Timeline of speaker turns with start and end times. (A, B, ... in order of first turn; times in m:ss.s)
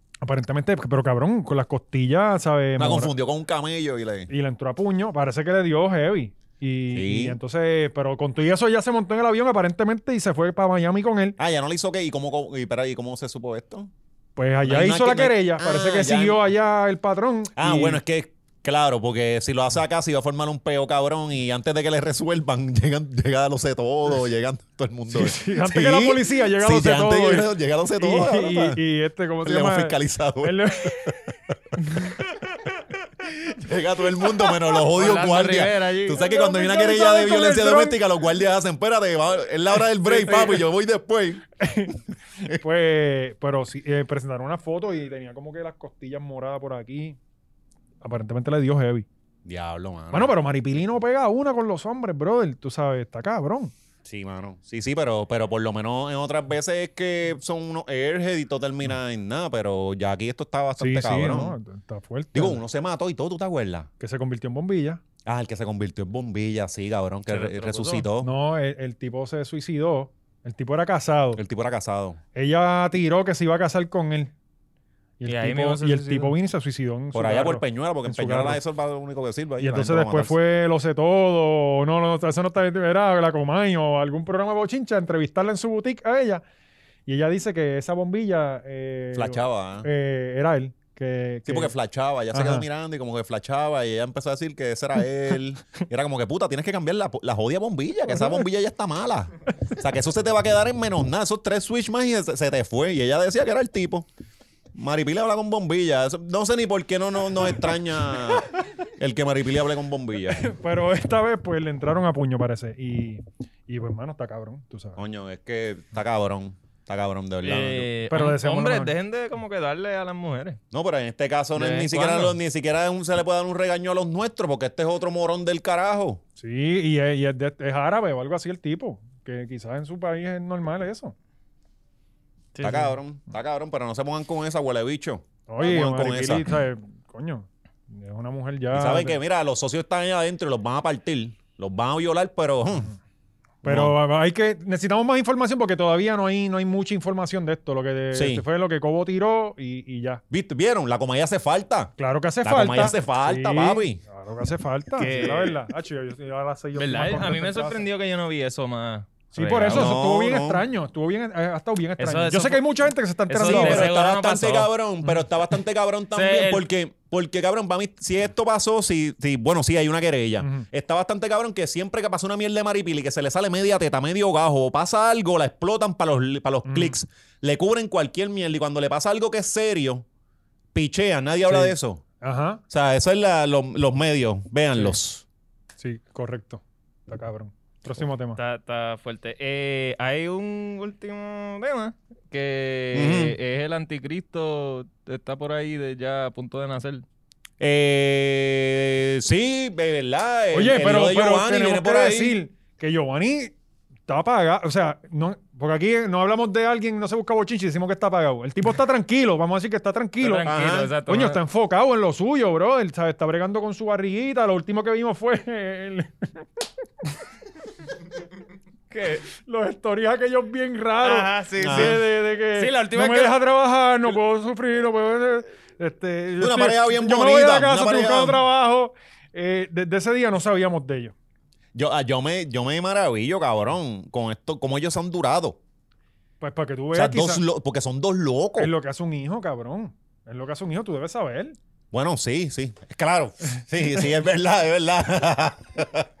0:00.2-0:03.1 A
0:02.8-0:04.3 B
0:04.3-0:11.4 A
0:06.9-0:07.4 B
0:11.4-0:13.9 B
0:14.4-0:18.0 A
0:14.6-0:16.4 B
0:17.6-0:28.8 B
0:25.1-0:32.1 A
0:29.4-0:31.1 B
0:33.2-0:41.5 B
0:34.9-0:36.2 C
0:36.1-0:38.0 A
0:40.0-0:40.5 A
0:41.6-0:47.2 A
0:48.0-0:49.0 A
0:49.4-0:50.3 B
0:50.1-0:53.7 A
0:54.0-1:01.6 B
1:00.8-1:02.6 A
1:02.3-1:03.9 B
1:04.0-1:05.0 A
1:05.2-1:08.3 B
1:07.3-1:08.0 C
1:08.2-1:11.4 A
1:11.4-1:12.2 B
1:12.3-1:14.3 A
1:15.2-1:18.6 A
1:15.2-1:16.3 C
1:17.1-1:20.4 B
1:19.6-1:26.4 A
1:27.0-1:31.7 A
1:29.1-1:29.9 B
1:31.4-1:44.1 B
1:32.3-1:32.6 A
1:38.1-1:38.4 A
1:44.7-1:50.5 B
1:50.4-1:55.0 A
1:55.0-1:57.9 B
1:57.4-2:00.6 C
1:58.1-1:58.9 A
2:00.7-2:06.2 B
2:01.5-2:02.3 C
2:06.4-2:11.1 A
2:12.5-2:12.9 C
2:12.6-2:16.5 B
2:15.5-2:19.2 A
2:18.7-2:22.9 B
2:23.6-2:30.2 A
2:23.6-2:23.9 B
2:28.1-2:28.4 B
2:30.3-2:34.0 B
2:32.0-2:37.8 A
2:35.0-2:35.6 C
2:36.8-2:39.9 C
2:39.3-2:43.9 A
2:39.7-2:40.6 B
2:42.0-2:42.6 C
2:43.3-2:44.7 C
2:43.4-3:00.0 B
2:46.1-2:46.6 C
2:56.6-2:57.0 A
3:00.7-3:02.0 B
3:01.4-3:02.6 A
3:02.7-3:05.2 B
3:05.8-3:08.4 A
3:08.4-3:17.0 C
3:12.9-3:13.4 B
3:17.6-3:22.4 B
3:20.5-3:23.6 A
3:24.1-3:30.5 A
3:30.2-3:31.4 C
3:30.4-3:30.9 B
3:31.1-3:36.6 A
3:38.9-3:39.2 C
3:39.4-3:51.1 A
3:41.0-3:43.3 C
3:41.6-3:42.0 B
3:46.4-3:48.4 B
3:51.7-3:55.6 B
3:56.4-3:57.4 A
3:56.9-3:58.7 B
3:58.6-4:01.6 A
4:01.9-4:06.1 B